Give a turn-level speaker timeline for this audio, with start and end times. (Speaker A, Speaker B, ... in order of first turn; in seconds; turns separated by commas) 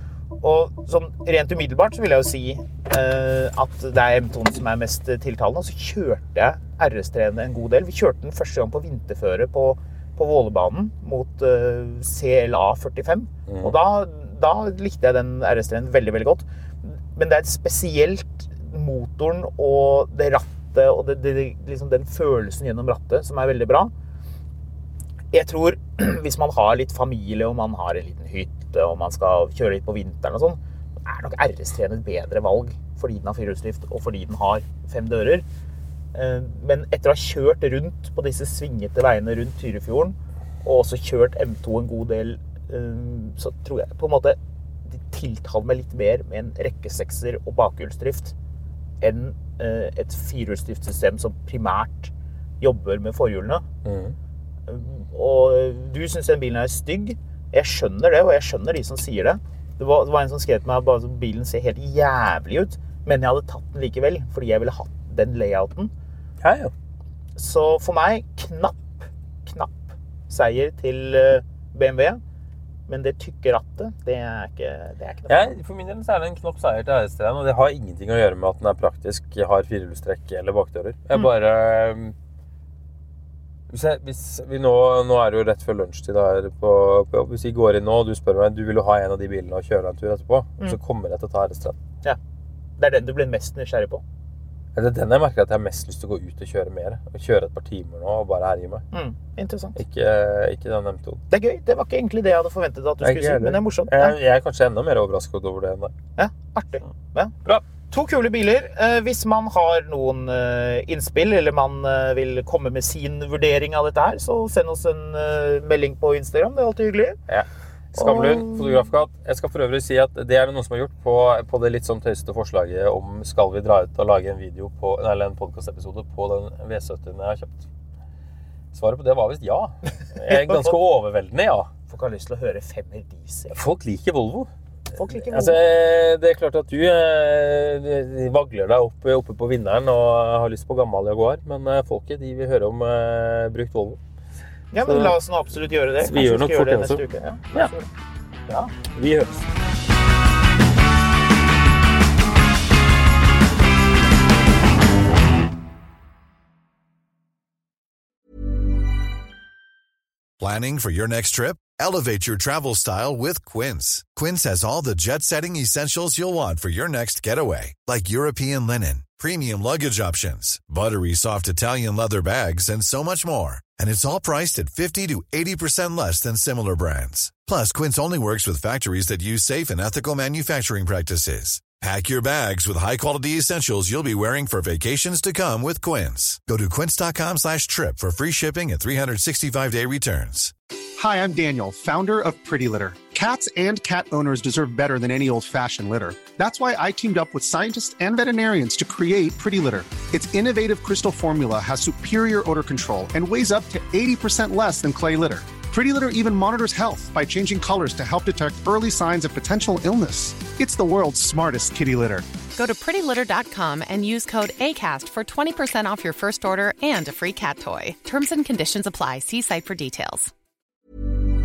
Speaker A: 0.4-23.9, Speaker B: 13.5-13.8, Speaker A: 25.3-35.4, Speaker A: 36.1-48.3, Speaker A: 49.0-53.6, Speaker B: 53.8-54.1, Speaker A: 54.7-65.9, Speaker B: 66.4-66.7, Speaker A: 67.3-72.2, Speaker A: 72.9-75.5, Speaker B: 75.3-82.1, Speaker B: 83.7-91.8, Speaker A: 92.8-94.0, Speaker B: 94.7-98.8, Speaker A: 98.9-99.8, Speaker B: 99.8-101.2, Speaker A: 101.3-104.2, Speaker B: 103.0-105.9, Speaker A: 106.2-117.2, Speaker B: 117.3-127.7, Speaker A: 118.0-118.8, Speaker B: 128.7-131.7, Speaker A: 130.3-130.7, Speaker A: 131.9-133.6, Speaker B: 133.5-144.0, Speaker A: 134.9-135.6, Speaker A: 144.7-147.9, Speaker B: 144.8-145.2, Speaker B: 146.0-147.7, Speaker B: 148.7-149.5, Speaker C: 160.4-190.5, Speaker D: 191.0-212.2, Speaker E: 212.6-220.3